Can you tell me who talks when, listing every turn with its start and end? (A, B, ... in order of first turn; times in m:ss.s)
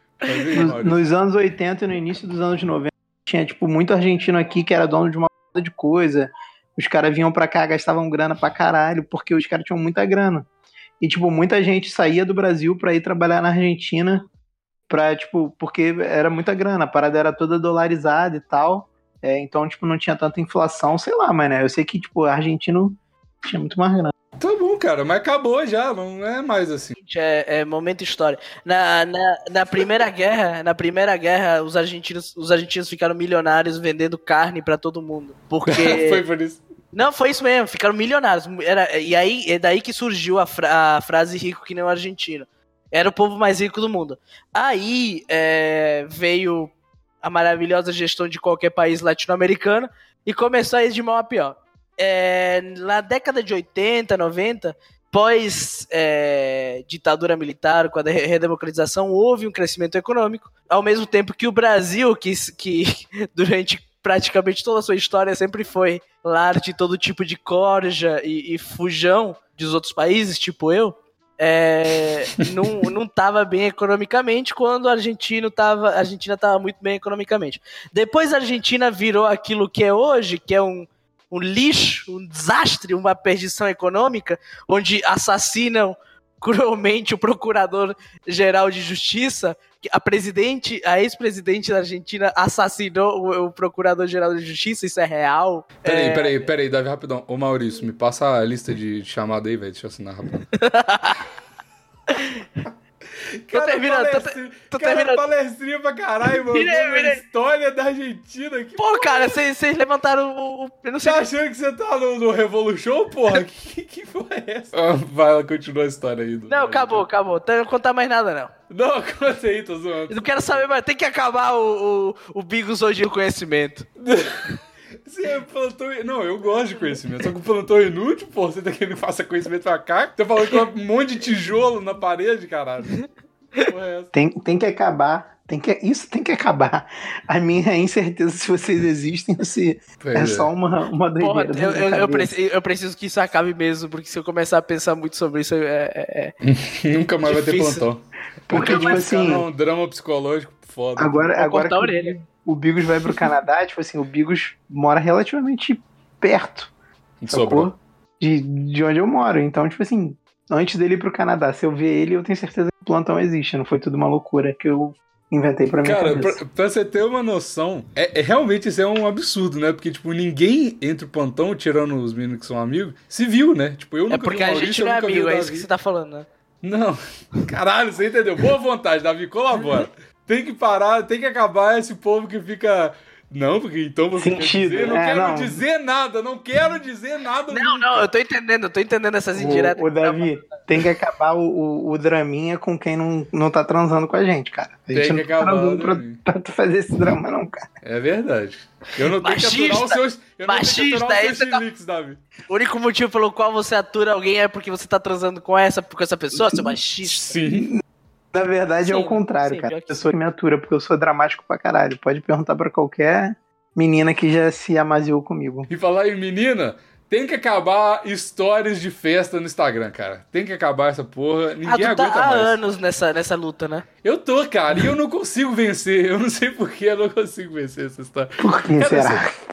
0:00.2-0:01.0 A
0:00.3-0:00.6 B
0:00.5-0:10.5 C
0:11.0-0:14.2 C
0:14.9-0:24.1 C
0:24.4-0:27.0 A
0:27.0-0:36.2 B
0:35.6-0:36.6 A
0:36.9-1:36.5 B
1:35.8-1:40.5 A
1:40.5-1:41.2 B
1:42.1-1:42.4 B
1:43.4-1:49.4 A
1:43.5-1:45.2 B
1:46.3-1:47.2 B
1:48.8-1:51.2 B
1:51.0-1:57.0 A
1:56.5-1:58.5 B
1:58.7-2:00.7 A
2:00.1-2:03.9 B
2:04.0-2:04.5 A
2:05.0-2:13.0 A
2:13.6-2:14.1 A
2:14.1-2:22.3 C
2:20.0-2:20.5 A
2:21.2-2:26.3 B
2:26.4-2:31.3 A
2:27.2-2:27.8 B
2:28.5-2:29.4 C
2:28.5-2:29.1 B
2:31.0-2:36.7 C
2:31.4-2:32.2 B
2:37.2-2:37.7 A
2:37.3-2:46.4 C
2:45.8-2:55.7 A
2:54.1-2:56.2 B
2:56.6-3:08.1 A
3:04.2-3:05.6 C
3:07.5-3:10.8 B
3:09.4-3:17.6 C
3:14.9-3:16.2 A
3:17.8-3:22.2 A
3:19.0-3:21.6 B
3:22.5-3:27.4 B
3:26.5-3:26.7 C
3:27.0-3:27.7 A
3:27.5-3:27.8 C
3:28.3-3:35.7 C
3:28.8-3:30.1 B
3:35.7-3:42.6 A
3:41.6-3:43.8 B
3:44.0-3:49.2 A
3:48.4-3:49.3 C